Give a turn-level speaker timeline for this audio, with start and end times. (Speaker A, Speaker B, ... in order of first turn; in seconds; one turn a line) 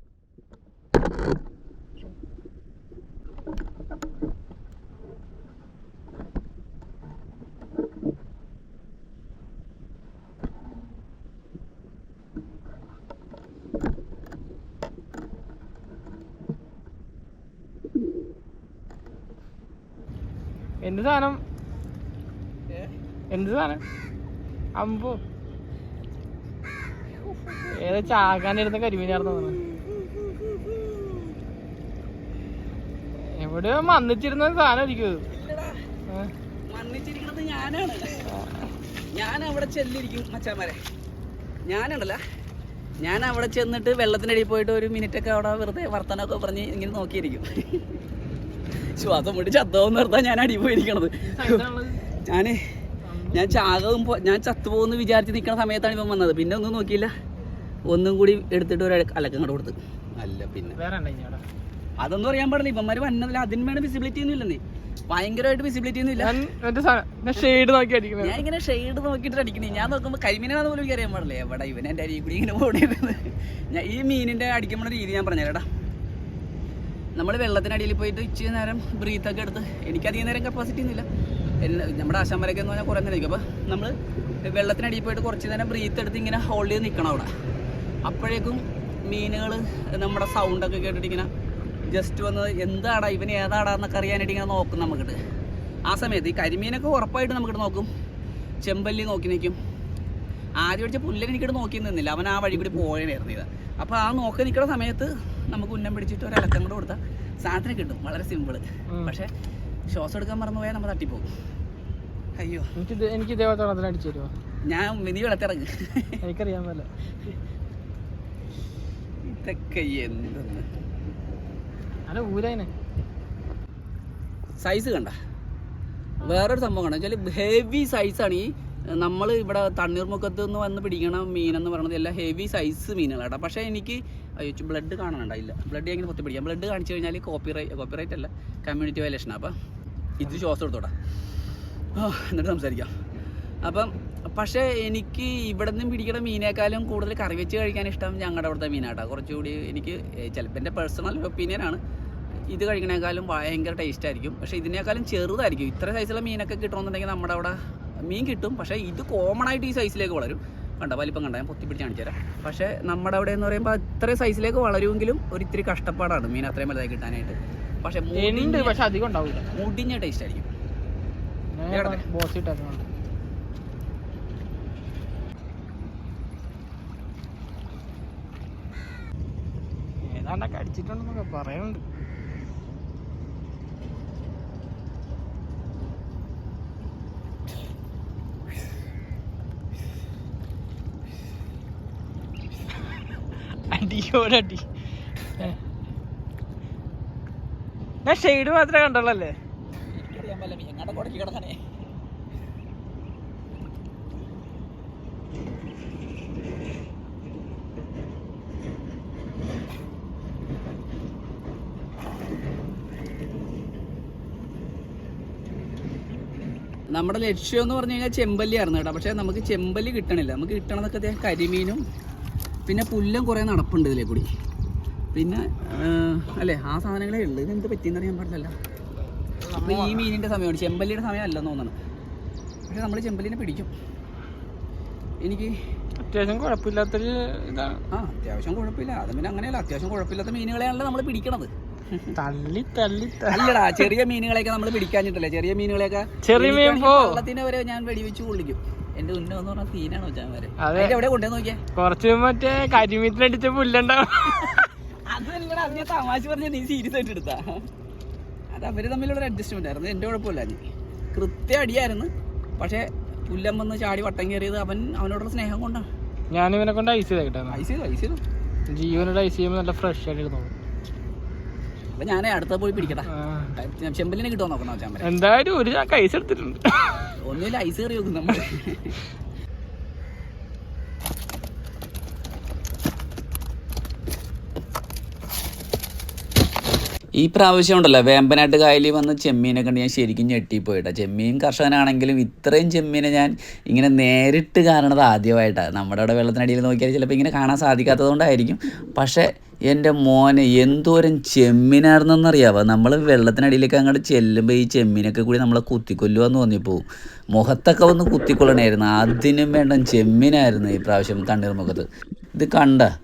Speaker A: 20.8-21.4
Speaker A: 23.3-23.8
Speaker A: 24.8-25.2
Speaker B: 27.4-27.7
Speaker A: 27.7-29.6
Speaker B: 29.7-30.9
Speaker A: 33.4-35.2
Speaker B: 35.3-35.8
Speaker B: 36.7-38.3
Speaker B: 39.1-40.8
Speaker B: 41.7-42.2
Speaker B: 43.0-47.9
Speaker B: 49.0-51.6
Speaker A: 51.3-52.0
Speaker B: 52.2-52.6
Speaker A: 53.1-53.5
Speaker B: 53.3-57.1
Speaker B: 57.9-60.8
Speaker A: 60.7-61.4
Speaker B: 62.0-66.3
Speaker A: 66.2-68.4
Speaker B: 68.2-75.7
Speaker B: 77.2-81.1
Speaker B: 81.6-83.9
Speaker B: 84.5-87.3
Speaker B: 88.1-91.3
Speaker B: 91.9-95.2
Speaker B: 95.9-97.9
Speaker B: 98.6-99.6
Speaker B: 100.6-109.3
Speaker B: 109.9-111.3
Speaker B: 112.4-112.7
Speaker A: 112.8-114.3
Speaker B: 114.7-116.2
Speaker A: 116.2-116.9
Speaker B: 119.3-120.7
Speaker A: 122.1-122.7
Speaker B: 124.6-125.2
Speaker B: 126.2-139.6
Speaker B: 140.2-140.9
Speaker B: 142.0-142.9
Speaker B: 143.6-151.8
Speaker B: 152.5-157.6
Speaker B: 158.1-168.8
Speaker A: 168.2-169.5
Speaker B: 169.5-170.5
Speaker A: 171.5-172.8
Speaker B: 171.7-172.0
Speaker A: 180.0-181.8
Speaker A: 193.7-194.6
Speaker A: 198.1-199.4
Speaker B: 199.8-201.6
Speaker B: 216.9-221.8
Speaker B: 222.7-224.3
Speaker B: 225.1-228.5
Speaker A: 229.4-230.1
Speaker B: 229.6-231.8
Speaker B: 232.7-233.7
Speaker B: 235.2-235.5
Speaker A: 236.0-237.8
Speaker B: 237.9-242.1
Speaker A: 242.2-243.9
Speaker B: 243.3-251.6
Speaker A: 246.2-247.2
Speaker A: 250.6-251.0
Speaker A: 251.8-254.7
Speaker B: 255.1-257.4
Speaker B: 258.5-260.6
Speaker B: 261.1-265.9
Speaker A: 266.3-267.6
Speaker B: 267.5-268.2
Speaker A: 268.7-270.5
Speaker B: 272.0-275.1
Speaker A: 273.1-273.5
Speaker A: 275.0-277.1
Speaker B: 277.2-279.0
Speaker B: 287.2-312.9